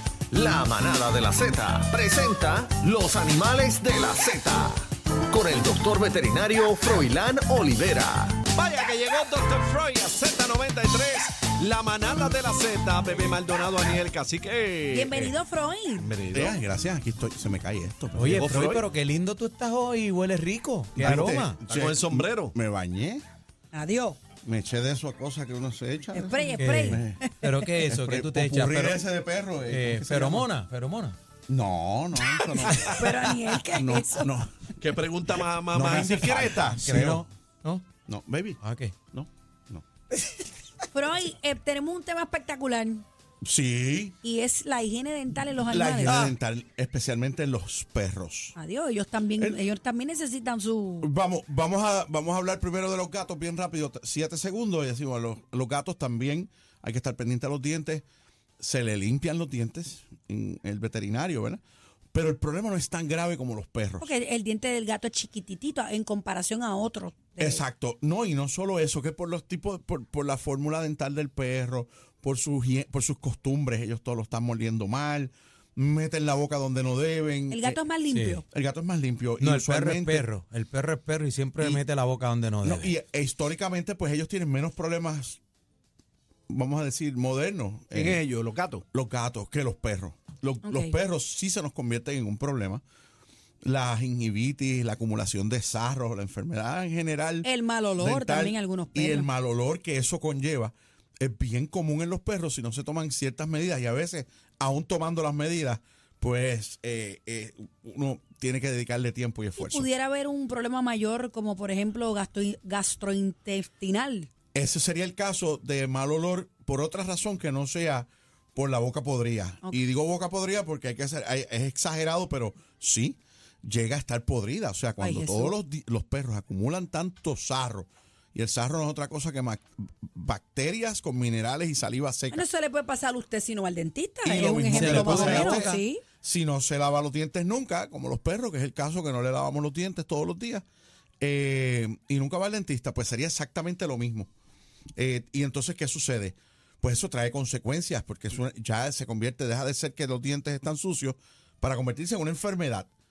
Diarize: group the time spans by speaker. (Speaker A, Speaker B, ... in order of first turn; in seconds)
Speaker A: 0.3-8.4
Speaker B: 1.9-3.0, 5.3-15.3, 16.0-16.6, 18.3-18.9, 21.7-22.5, 32.4-32.8, 34.8-36.7, 87.9-88.8
Speaker C: 14.9-16.1, 23.7-24.2, 26.1-27.7, 32.8-34.3, 40.9-43.0, 44.2-46.3, 48.5-51.1, 64.0-67.6, 77.5-78.4, 90.6-90.9, 97.4-99.3, 109.6-114.3, 125.0-125.5, 132.3-136.0
Speaker D: 16.3-18.6, 20.9-23.2, 24.4-27.2, 27.9-30.5, 31.5-34.6, 35.7-37.2, 38.0-38.6, 39.1-39.8, 43.4-44.1, 45.7-48.5, 51.0-58.0, 58.6-61.6, 62.1-64.1, 67.4-77.8, 78.5-80.3, 81.6-81.8, 82.6-85.4, 86.5-88.2, 88.9-92.8, 93.6-97.5, 98.0-109.9, 114.5-132.4, 134.2-140.6, 141.2-144.3, 145.0-152.9
Speaker E: 18.1-21.6, 26.6-29.0, 29.6-31.1, 36.7-37.8, 38.6-38.9, 78.1-78.4, 79.4-82.9, 134.7-135.8